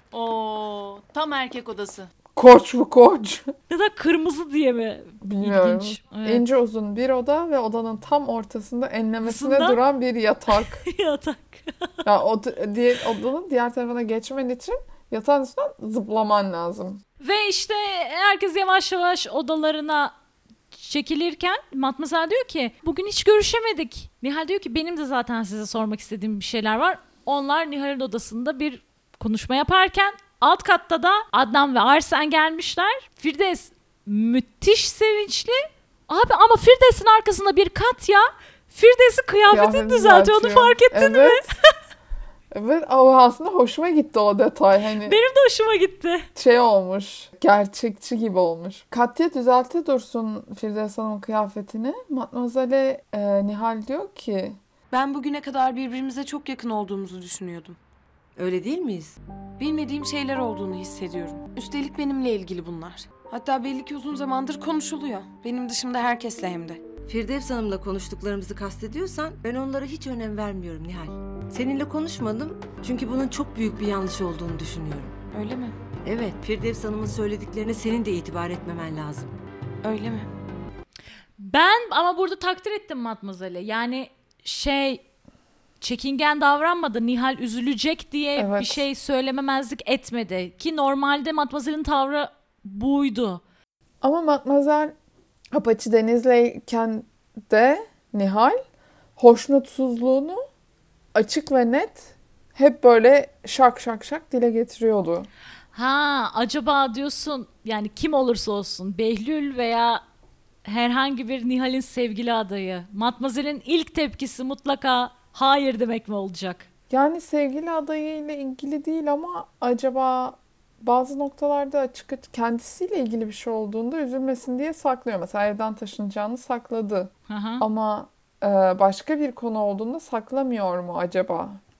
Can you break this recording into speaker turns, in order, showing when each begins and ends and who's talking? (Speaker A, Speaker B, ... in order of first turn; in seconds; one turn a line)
Speaker A: 0.1-2.1
Speaker B: 2.3-3.5
Speaker C: 3.7-6.4
Speaker B: 5.2-10.8
Speaker C: 9.2-9.8
Speaker C: 10.5-11.9
Speaker B: 12.0-17.0
Speaker C: 17.2-20.1
Speaker C: 20.7-41.5
Speaker B: 39.5-41.4
Speaker B: 42.5-45.2
Speaker C: 45.0-46.3
Speaker B: 46.3-54.6
Speaker D: 54.9-57.8
Speaker E: 58.4-59.1
Speaker D: 59.6-66.8
Speaker E: 67.1-75.2
Speaker D: 75.3-75.8
Speaker E: 76.0-79.3
Speaker D: 79.8-80.3
Speaker C: 81.4-85.0
Speaker C: 85.8-93.4
Speaker B: 88.3-88.8
Speaker B: 94.0-94.9
Speaker B: 95.5-98.6
Speaker B: 99.2-100.4
Speaker B: 101.1-105.3
Speaker C: 105.7-110.0
Speaker C: 110.6-116.7
Speaker B: 116.9-131.6
Speaker C: 127.3-127.6